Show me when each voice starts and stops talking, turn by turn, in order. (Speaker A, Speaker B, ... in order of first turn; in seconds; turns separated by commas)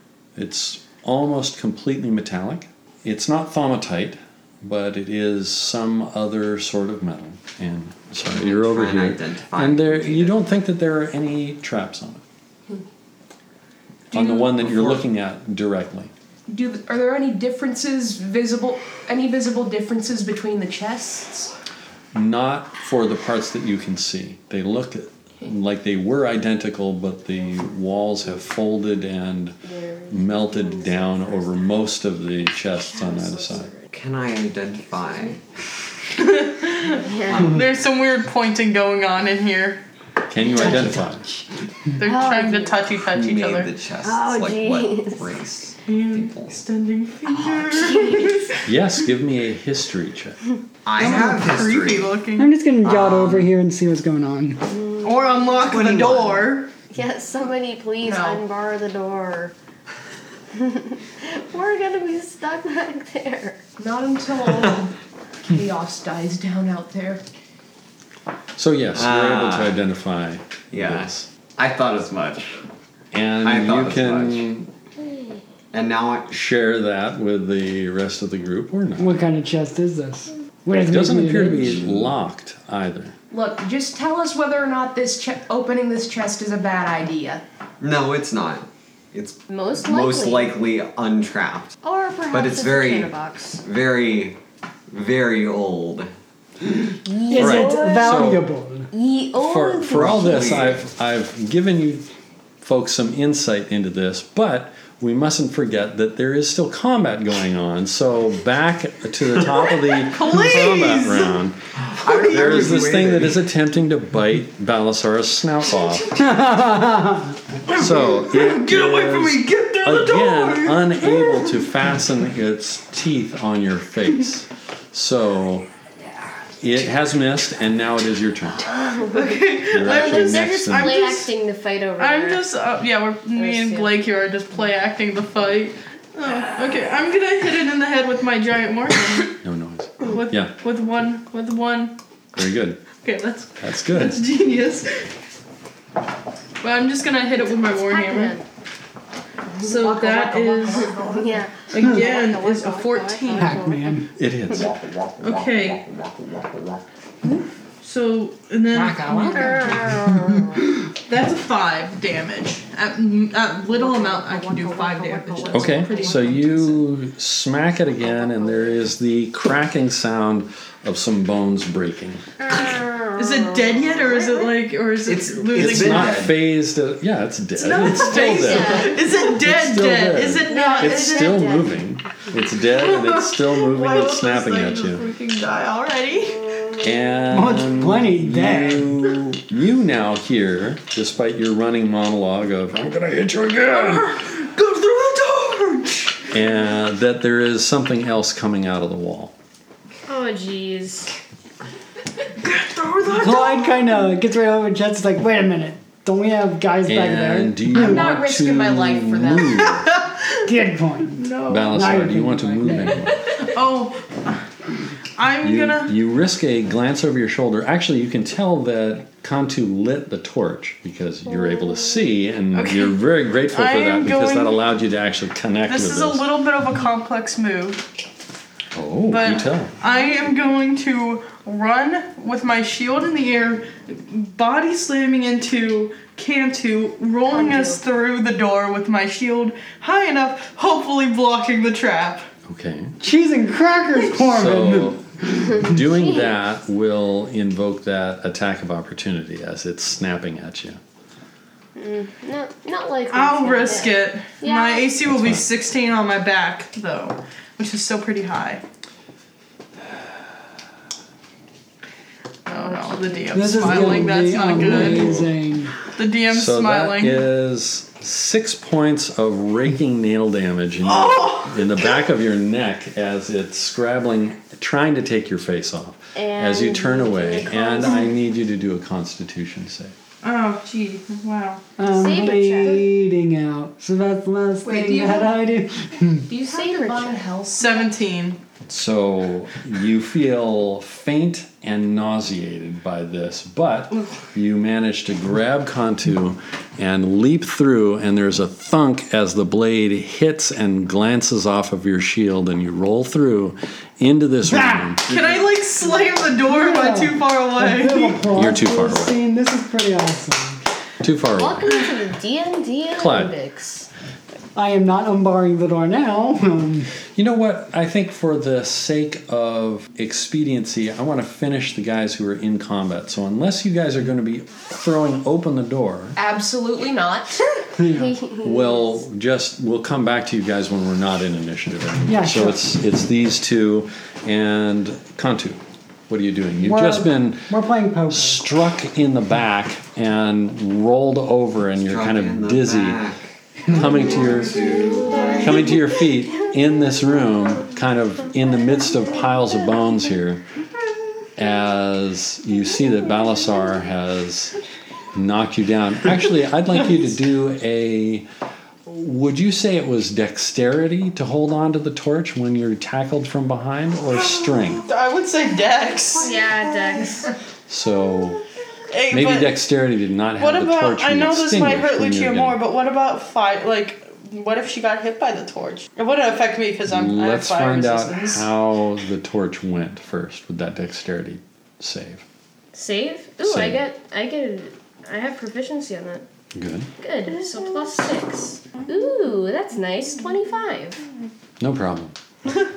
Speaker A: 0.3-12.2, Speaker B: 8.3-10.4, Speaker A: 14.1-16.1, Speaker B: 14.6-15.0, Speaker C: 16.5-21.5, Speaker A: 22.1-29.6, Speaker D: 29.6-31.7, Speaker A: 30.1-33.7, Speaker D: 32.9-33.9, Speaker B: 33.9-35.4, Speaker D: 34.9-35.3, Speaker E: 36.2-39.8, Speaker D: 36.8-37.6, Speaker B: 37.2-37.7, Speaker A: 40.3-41.3, Speaker F: 40.6-41.4, Speaker E: 42.0-43.7, Speaker D: 42.0-42.9, Speaker B: 43.0-46.6, Speaker D: 44.0-45.3, Speaker E: 45.9-48.6, Speaker D: 47.3-48.6, Speaker A: 48.6-50.4, Speaker B: 50.9-52.2, Speaker E: 51.0-52.5, Speaker F: 52.4-54.7, Speaker B: 52.8-53.5, Speaker D: 54.7-55.4, Speaker E: 55.0-56.7, Speaker B: 55.6-56.6, Speaker D: 56.9-59.5, Speaker C: 58.0-58.4, Speaker D: 60.5-63.6, Speaker C: 63.8-64.9, Speaker C: 65.5-67.2, Speaker A: 68.6-71.3, Speaker B: 68.9-69.8, Speaker B: 70.7-72.6, Speaker A: 73.1-74.7, Speaker B: 73.4-74.5, Speaker B: 75.7-76.3, Speaker A: 76.3-79.2, Speaker F: 79.0-82.1, Speaker A: 80.7-83.1, Speaker C: 83.3-87.4, Speaker B: 87.8-91.8, Speaker D: 89.5-90.5, Speaker D: 91.8-93.6, Speaker B: 92.3-94.4, Speaker B: 94.9-96.1, Speaker D: 97.0-98.3, Speaker F: 97.1-98.9, Speaker A: 97.3-98.5, Speaker D: 98.9-100.7, Speaker A: 99.4-102.0, Speaker B: 99.9-100.8, Speaker A: 102.6-116.3, Speaker E: 110.0-111.4, Speaker B: 111.8-113.4, Speaker F: 116.1-117.4, Speaker E: 117.7-121.5, Speaker A: 117.7-125.7, Speaker A: 126.6-128.7, Speaker E: 128.7-131.3, Speaker D: 128.8-132.4, Speaker A: 129.7-131.0, Speaker E: 132.0-139.3, Speaker D: 133.3-133.9, Speaker A: 139.4-140.5, Speaker E: 140.0-141.9, Speaker A: 142.3-142.8, Speaker E: 143.0-145.1, Speaker A: 143.6-144.2, Speaker E: 146.6-148.4, Speaker D: 147.6-148.4, Speaker D: 149.5-154.0, Speaker E: 149.6-153.6, Speaker F: 153.3-154.1, Speaker A: 154.2-154.8, Speaker E: 155.2-155.8, Speaker E: 157.2-159.9, Speaker F: 158.7-160.7, Speaker D: 159.3-160.7, Speaker E: 161.1-166.4, Speaker D: 163.7-166.8, Speaker A: 165.5-172.2, Speaker D: 167.9-168.8, Speaker D: 172.4-174.5, Speaker E: 173.2-176.3, Speaker B: 175.0-176.4, Speaker A: 175.5-185.1, Speaker E: 177.6-181.6, Speaker D: 177.9-179.0, Speaker D: 180.4-181.8, Speaker E: 182.7-186.5, Speaker D: 186.3-187.2, Speaker A: 186.8-194.2, Speaker F: 187.3-189.2, Speaker E: 193.7-196.2, Speaker A: 196.3-199.3, Speaker D: 200.1-201.1, Speaker E: 202.4-203.9, Speaker F: 203.1-208.1, Speaker A: 206.8-209.9, Speaker C: 207.7-209.8, Speaker E: 209.8-210.3, Speaker F: 210.4-213.1, Speaker E: 211.2-211.9, Speaker A: 211.5-213.2, Speaker E: 213.4-214.4, Speaker E: 215.2-215.9, Speaker A: 215.4-226.2, Speaker D: 221.3-222.1, Speaker E: 222.5-224.6, Speaker E: 225.7-227.8, Speaker A: 228.7-229.7, Speaker E: 229.1-242.3, Speaker D: 237.3-237.8, Speaker A: 242.5-243.0, Speaker F: 243.0-245.7, Speaker A: 244.2-250.8, Speaker D: 245.8-246.3, Speaker D: 251.8-254.9, Speaker E: 253.1-258.6, Speaker A: 255.0-255.5, Speaker E: 262.5-265.1, Speaker D: 262.5-264.2, Speaker F: 263.3-265.7, Speaker A: 264.4-265.3, Speaker E: 265.9-267.3, Speaker A: 266.3-279.9, Speaker E: 270.8-272.0, Speaker D: 276.1-278.1, Speaker E: 280.2-281.6, Speaker F: 281.8-286.3, Speaker D: 281.9-282.9, Speaker C: 284.6-285.3, Speaker C: 286.3-287.9, Speaker D: 286.4-287.2, Speaker E: 287.5-288.4, Speaker A: 288.7-305.0, Speaker F: 304.5-305.0, Speaker B: 305.1-305.5, Speaker E: 305.1-308.2, Speaker F: 306.4-310.6, Speaker A: 308.3-309.2, Speaker A: 311.0-311.7, Speaker D: 311.4-313.9, Speaker A: 312.9-313.3, Speaker F: 314.5-316.9, Speaker A: 317.1-326.2, Speaker C: 326.1-327.4, Speaker F: 327.8-328.1, Speaker D: 327.8-328.9, Speaker A: 328.4-337.6, Speaker F: 332.1-332.6, Speaker F: 336.6-338.4, Speaker A: 338.1-343.0, Speaker B: 341.8-345.7, Speaker A: 343.6-344.8, Speaker D: 344.3-347.2, Speaker E: 344.8-345.4, Speaker A: 345.3-350.4, Speaker A: 351.4-354.5, Speaker A: 355.1-358.3, Speaker A: 358.9-364.8, Speaker E: 364.1-367.2, Speaker D: 366.2-367.3, Speaker A: 367.7-368.4, Speaker E: 368.9-369.5, Speaker A: 369.1-372.6, Speaker E: 370.4-378.5, Speaker A: 376.9-382.2, Speaker D: 382.7-386.2, Speaker A: 383.4-383.8, Speaker A: 386.5-386.9, Speaker D: 387.0-391.0, Speaker E: 387.3-388.0, Speaker E: 388.8-389.1, Speaker A: 391.6-392.1